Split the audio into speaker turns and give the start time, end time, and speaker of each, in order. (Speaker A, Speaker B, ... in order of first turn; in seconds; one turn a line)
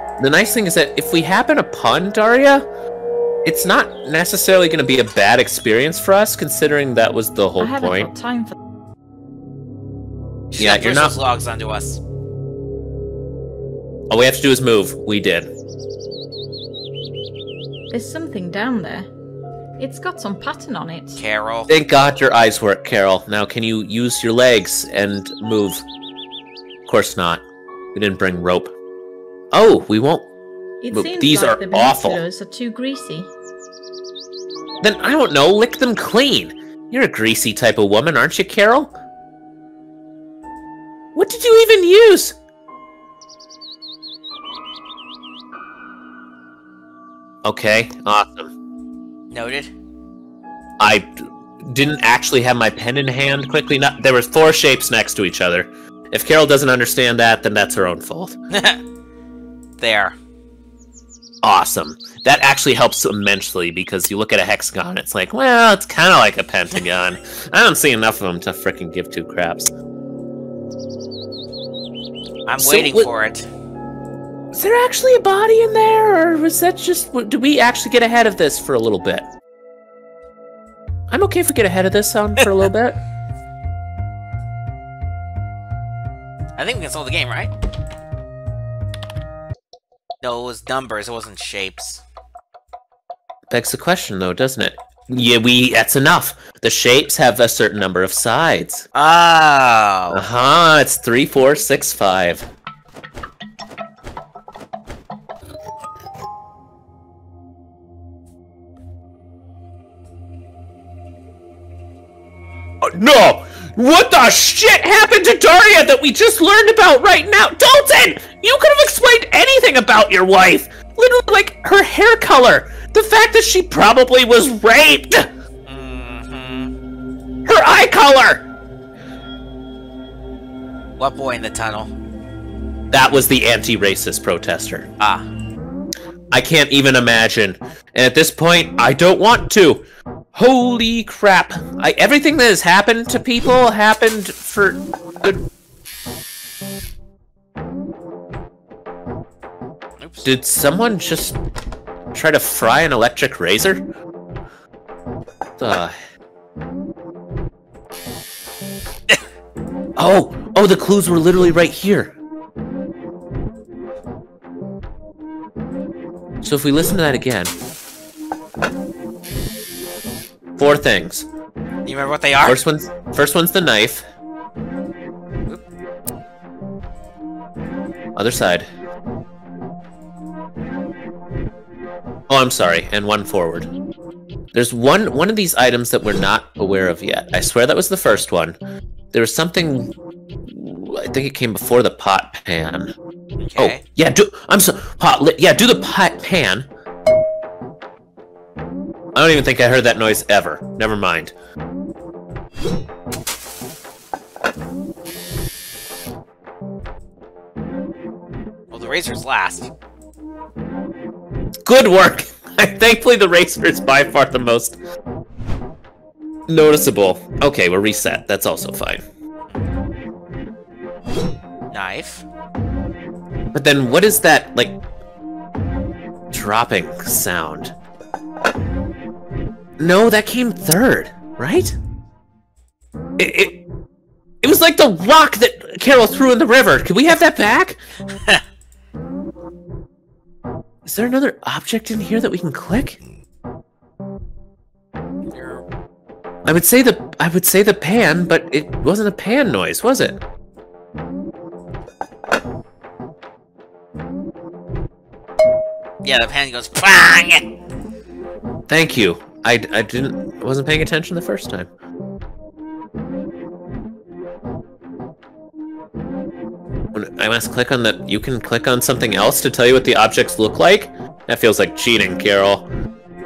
Speaker A: 0.2-2.6
Speaker A: 3.4-8.1
Speaker B: 7.6-8.5
Speaker C: 10.5-12.0
Speaker A: 10.6-11.2
Speaker A: 14.1-15.5
Speaker B: 17.9-19.1
Speaker B: 19.8-21.2
Speaker C: 21.1-21.7
Speaker A: 21.7-25.8
Speaker A: 26.9-27.4
Speaker A: 27.9-28.7
Speaker A: 29.5-30.3
Speaker B: 30.8-33.3
Speaker A: 30.9-32.2
Speaker A: 34.8-38.9
Speaker A: 41.1-42.4
Speaker A: 47.4-48.5
Speaker C: 49.3-49.7
Speaker A: 50.8-58.4
Speaker C: 58.5-58.8
Speaker C: 59.8-60.1
Speaker A: 61.4-69.7
Speaker C: 72.5-73.5
Speaker A: 72.6-73.1
Speaker A: 74.5-79.2
Speaker A: 81.1-83.0
Speaker C: 86.6-87.5
Speaker C: 90.2-92.0
Speaker A: 93.5-98.9
Speaker C: 98.9-100.2
Speaker A: 100.1-102.5
Speaker A: 112.8-125.3
Speaker C: 125.7-126.7
Speaker A: 127.5-128.4
Speaker C: 131.0-131.9
Speaker A: 132.9-134.9
Speaker C: 135.0-135.3
Speaker A: 136.3-145.4
Speaker C: 150.0-150.3
Speaker A: 150.2-151.4
Speaker A: 152.1-153.8
Speaker A: 155.6-155.9
Speaker A: 159.9-162.1
Speaker A: 166.4-167.5
Speaker A: 170.6-171.3
Speaker C: 171.8-172.6
Speaker A: 172.4-174.0
Speaker A: 178.2-178.7
Speaker A: 182.3-183.7
Speaker A: 184.5-188.6
Speaker A: 189.1-189.9
Speaker A: 190.4-192.9
Speaker C: 193.4-193.8
Speaker A: 193.6-196.7
Speaker A: 199.1-201.3
Speaker C: 208.7-209.7
Speaker A: 211.6-214.8
Speaker A: 216.5-219.0
Speaker C: 221.7-222.2
Speaker A: 223.5-224.8
Speaker A: 226.3-227.7
Speaker A: 229.8-231.8
Speaker A: 233.2-233.6
Speaker A: 234.4-237.8
Speaker A: 240.8-243.0
Speaker C: 245.3-245.6
Speaker A: 246.4-250.2
Speaker C: 256.0-257.4
Speaker A: 258.7-261.7
Speaker A: 266.9-272.7